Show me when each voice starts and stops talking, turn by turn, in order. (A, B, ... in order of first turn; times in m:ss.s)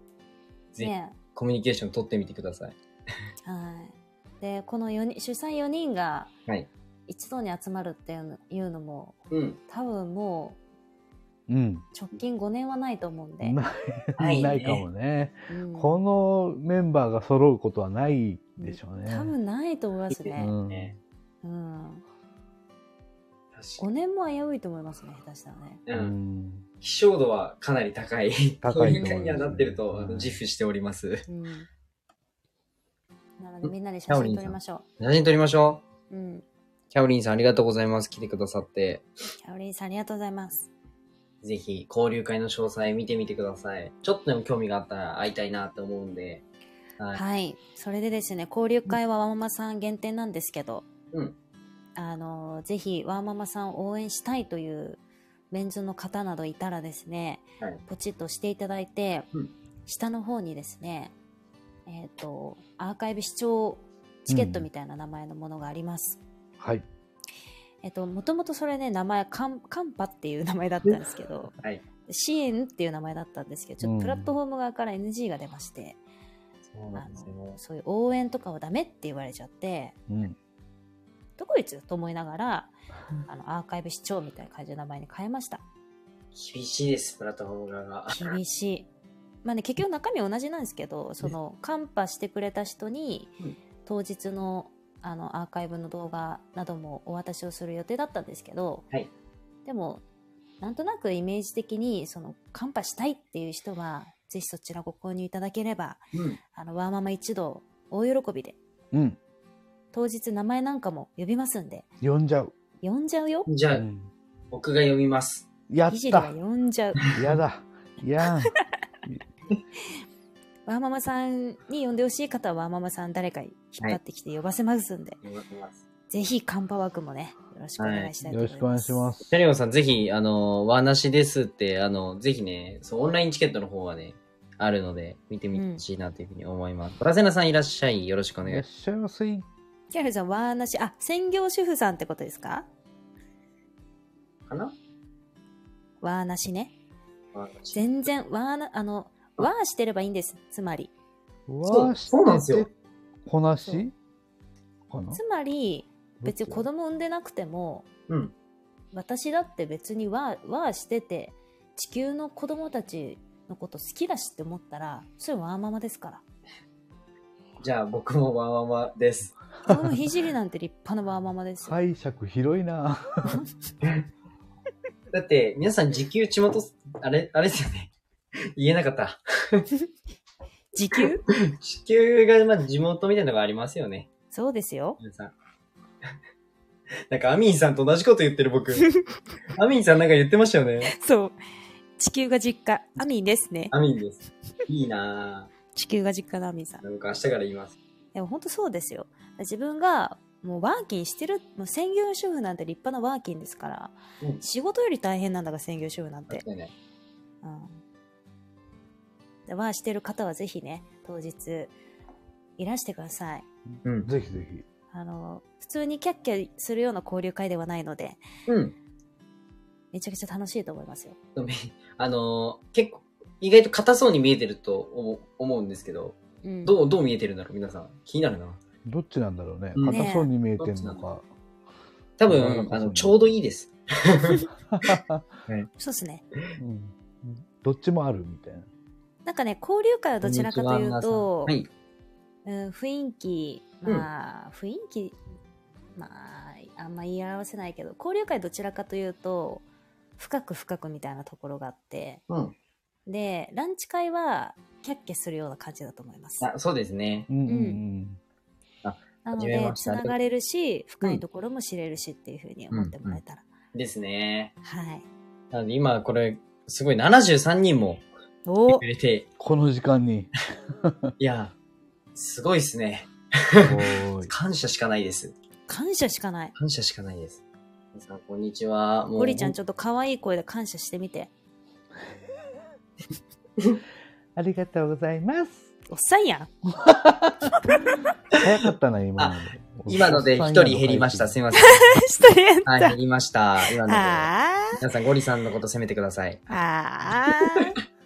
0:00.7-0:02.8 A
0:00.8-0:01.2 B
0:03.4-0:06.3 B
0:07.1-0:09.2 B
0:09.3-0:09.6 A
0:09.7-0:10.6 B
0:11.5-0:11.8 C
0:11.9-0:13.6 B
0:13.4-0:19.3 C
0:14.2-0:14.8 A
0:15.5-0:16.0 B
0:18.6-0:20.5 B
0:20.1-0:20.9 A
0:20.4-0:21.0 C
0:21.4-0:22.0 B
0:23.5-0:23.8 A
0:23.8-0:25.8 B
0:25.9-0:26.1 A
0:25.9-0:26.6 C
0:26.8-0:31.2 A
0:28.6-0:30.4 C
0:28.8-0:29.2 B
0:31.3-0:31.7 B
0:33.4-0:34.8 B
0:33.6-0:35.8 A
0:36.1-0:36.4 B
0:36.9-0:39.0 A
0:39.4-0:40.7 B
0:41.4-0:46.4 A
0:47.1-0:50.8 B
0:52.0-0:55.0 B
0:55.5-0:59.3 B
0:59.8-1:01.1 B
1:01.8-1:06.2 B
1:04.3-1:04.6 C
1:06.6-1:06.8 C
1:07.8-1:11.5 B
1:12.0-1:16.0 B
1:13.8-1:14.3 C
1:16.7-1:17.6 A
1:16.9-1:20.0 B
1:20.1-1:20.4 C
1:21.4-1:22.7 B
1:23.2-1:25.6 B
1:26.3-1:28.4 A
1:28.1-1:28.9 B
1:29.4-1:33.3 B
1:33.8-1:38.8 B
1:39.6-1:40.0 B
1:40.6-1:46.0 B
1:46.1-1:46.4 A
1:46.5-1:48.6 B
1:48.9-1:49.2 C
1:49.9-1:51.9 B
1:52.0-1:52.5 C
1:52.8-1:53.5 B
1:53.5-1:53.8 A
1:53.7-1:54.1 C
1:54.5-1:55.5 A
1:55.7-1:56.3 C
1:55.9-1:57.0 B
1:57.1-1:58.5 C
2:00.6-2:05.2 B
2:05.2-2:05.8 A
2:06.1-2:09.1 B
2:07.8-2:08.1 A
2:08.3-2:09.3 C
2:09.3-2:18.6 A
2:15.5-2:15.8 B
2:18.4-2:19.5 C
2:19.9-2:22.7 B
2:24.5-2:24.7 A
2:26.0-2:26.7 B
2:27.3-2:27.8 A
2:27.7-2:30.9 B
2:31.5-2:32.7 C
2:31.6-2:32.7 A
2:33.2-2:33.9 C
2:34.9-2:35.2 C
2:35.1-2:37.9 B
2:36.2-2:36.6 C
2:38.1-2:38.3 A
2:38.9-2:46.2 B
2:47.6-2:49.4 A
2:49.6-2:51.8 B
2:51.6-2:53.4 C
2:53.8-2:54.1 A
2:55.1-2:57.9 A
2:58.5-2:59.7 A
3:00.7-3:01.2 B
3:01.4-3:04.1 A
3:04.3-3:05.0 B
3:05.0-3:05.3 A
3:07.1-3:08.9 A
3:08.8-3:09.0 B
3:09.5-3:10.9 A
3:10.8-3:11.4 B
3:12.0-3:13.7 B
3:13.7-3:15.5 A
3:15.7-3:16.8 B
3:16.8-3:17.8 A
3:18.1-3:26.4 B
3:26.3-3:26.7 A
3:27.4-3:27.8 B
3:29.5-3:31.7 B
3:32.6-3:33.4 B
3:33.8-3:34.1 A
3:34.0-3:34.6 C
3:34.9-3:38.2 B
3:38.5-3:38.7 A
3:39.9-3:41.2 B
3:41.4-3:48.6 A
3:46.4-3:46.7 B
3:48.8-3:51.2 C
3:49.7-3:50.0 A
3:49.9-3:50.3 B
3:50.5-3:51.0 A
3:52.2-3:55.0 A
3:52.3-3:53.1 C
3:54.7-3:55.3 C
3:55.8-3:56.2 B
3:56.6-3:58.7 C
3:59.2-4:01.6 B
4:00.2-4:01.7 A
4:02.4-4:05.2 B
4:06.0-4:09.6 B
4:10.2-4:12.2 B
4:13.1-4:16.4 B
4:16.4-4:17.3 A
4:17.3-4:18.2 C
4:17.4-4:17.8 B
4:18.8-4:20.1 A
4:19.2-4:23.4 B
4:22.7-4:23.2 A
4:23.7-4:24.5 A
4:24.6-4:25.0 B
4:25.5-4:28.0 A
4:28.4-4:28.8 B
4:28.7-4:29.3 A
4:29.4-4:31.1 C
4:31.2-4:31.5 A
4:32.1-4:35.3 A
4:33.6-4:34.3 C
4:35.7-4:36.5 B
4:36.6-4:37.4 A
4:37.9-4:39.5 A
4:39.2-4:41.3 B
4:44.4-4:45.7 C
4:45.9-4:46.5 B
4:46.7-4:47.5 C
4:47.6-4:48.1 B
4:48.4-4:51.4 C
4:49.2-4:52.0 A
4:51.5-4:53.0 B
4:52.6-4:56.5 A
4:53.8-4:54.8 B
4:56.5-4:57.8 B